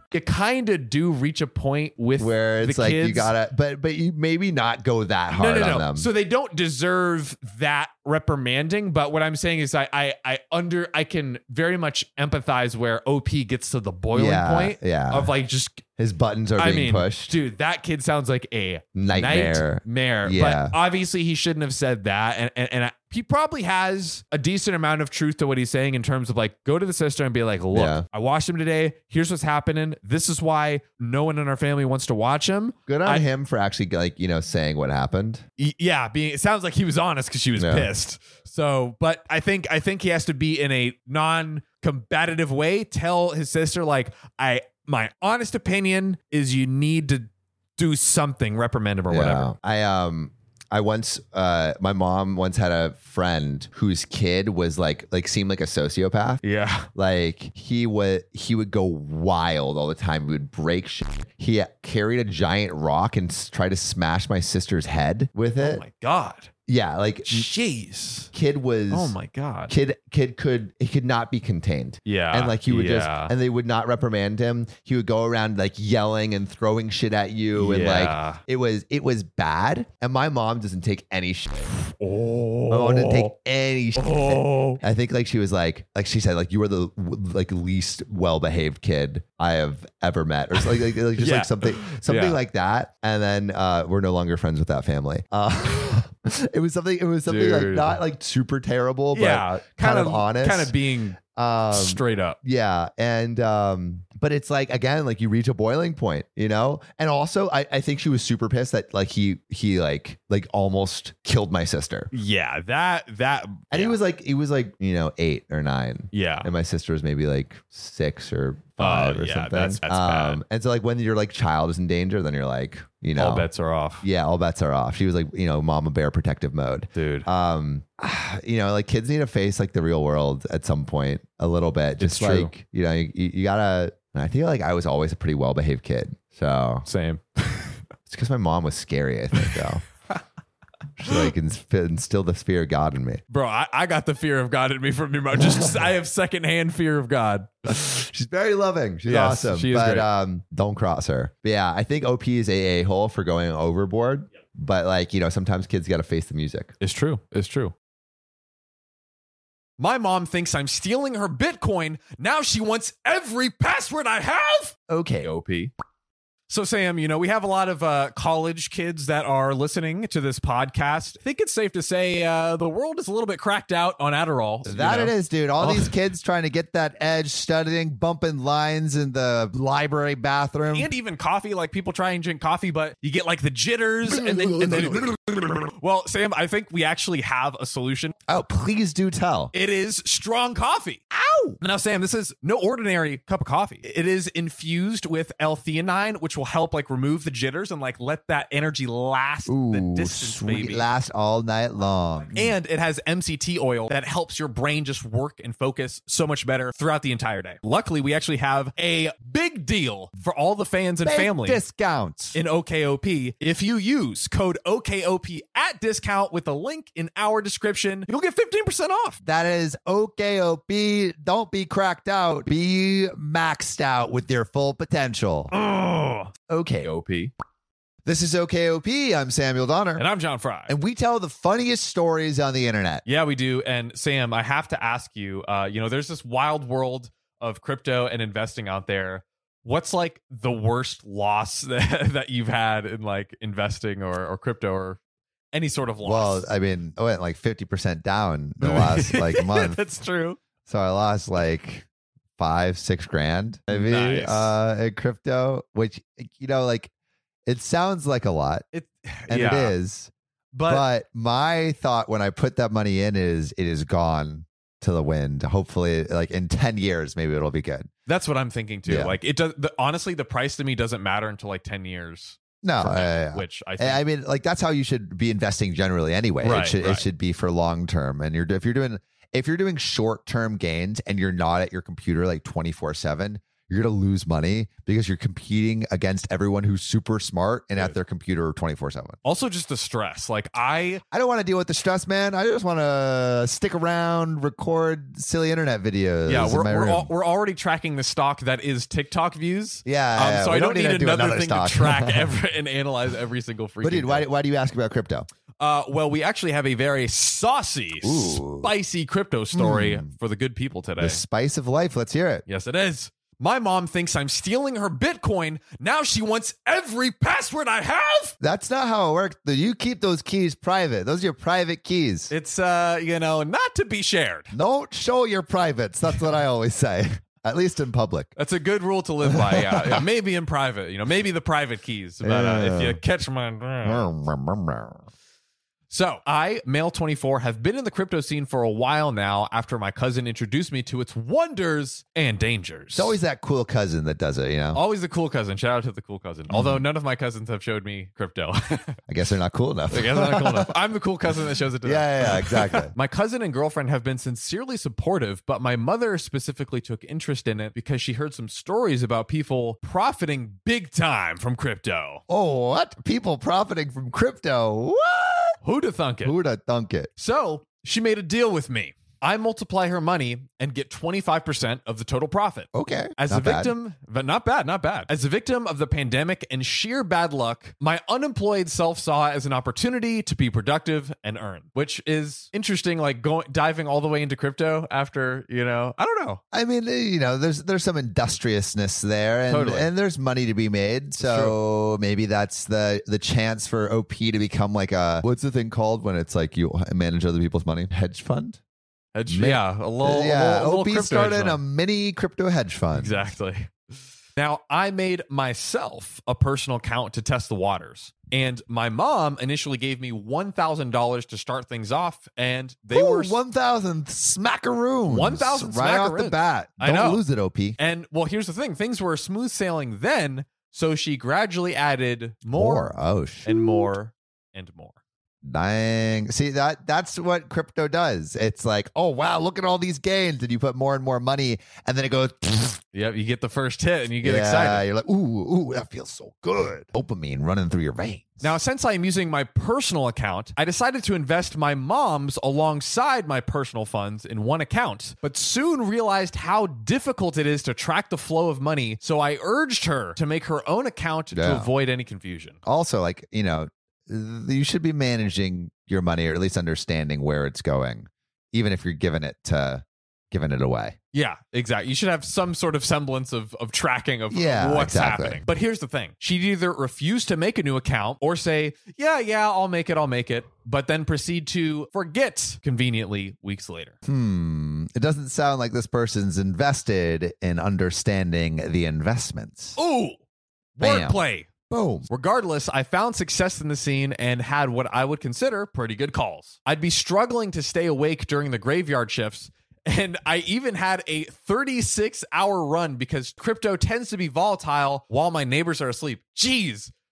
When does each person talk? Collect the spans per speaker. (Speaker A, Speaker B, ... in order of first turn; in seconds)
Speaker A: 0.1-3.3, 5.3-15.9, 16.6-33.3, 35.6-49.5, 56.4-56.9, 65.6-66.5, 67.2-68.3, 68.9-69.7, 72.0-73.3, 77.5-78.4, 81.7-83.3, 84.0-84.8, 90.5-92.4, 97.2-98.0, 99.1-102.4, 112.1-114.0, 116.1-116.5, 118.8-120.4, 123.2-124.0, 126.9-127.3, 132.0-132.5, 136.8-137.8, 139.3-140.2, 143.3-147.9, 149.0-150.1, 156.8-157.7, 159.8-165.7, 166.5-176.0, 180.7-188.1, 189.5-191.1, 191.6-200.9, 202.3-211.6, 212.3-219.2, 225.5-227.3, 229.9-230.7, 233.0-245.0, 245.5-246.5, 248.6-250.4, 253.7-254.5, 258.7-259.8, 260.5-260.9, 268.1-274.0, 276.4-277.1, 289.2-291.0, 296.3-304.3, 305.6-311.2, 312.4-318.4, 322.3-324.5, 328.4-334.1, 335.9-343.1, 344.7-349.0, 349.9-362.2, 365.6-366.3, 367.1-386.4, 389.5-389.9, 391.2-391.6, 399.1-401.6, 402.9-403.7, 404.4-413.4, 415.1-417.2, 417.8-422.9, 423.4-425.0, 432.9-434.9, 438.4-452.6, 461.1-473.9, 479.8-480.2, 480.8-481.5, 482.1-496.9
Speaker B: 2.2-6.1, 14.1-15.3, 15.9-17.4, 18.9-20.7, 27.7-28.0, 32.9-35.4, 37.5-37.9, 49.1-56.4, 57.0-65.8, 66.7-67.5, 68.3-69.2, 69.7-81.7, 82.7-112.1, 113.7-123.5, 124.0-136.8, 138.1-139.8, 141.0-143.2, 145.4-145.8, 147.7-156.7, 164.9-165.3, 174.6-180.9, 184.1-185.1, 188.3-189.5, 191.1-191.6, 199.4-202.6, 211.0-212.4, 219.2-225.5, 226.5-226.9, 228.1-230.0, 230.7-233.0, 246.0-249.8, 250.6-251.8, 252.4-256.9, 257.4-258.6, 259.3-260.1, 260.7-267.9, 268.9-269.2, 272.6-289.2, 291.1-297.1, 299.9-302.3, 303.8-305.3, 308.0-308.7, 309.5-310.1, 311.0-312.4, 318.4-322.3, 324.5-328.3, 329.2-329.9, 332.2-333.0, 333.8-335.1, 342.9-344.8, 346.5-346.8, 349.1-350.7, 351.8-352.9, 362.3-365.6, 366.2-367.1, 372.7-373.7, 386.5-398.6, 399.3-403.1, 412.9-417.8, 422.5-423.9, 425.4-432.8, 434.2-438.5, 451.3-451.7, 452.6-460.9, 464.3-465.4, 474.1-479.8, 480.8-482.1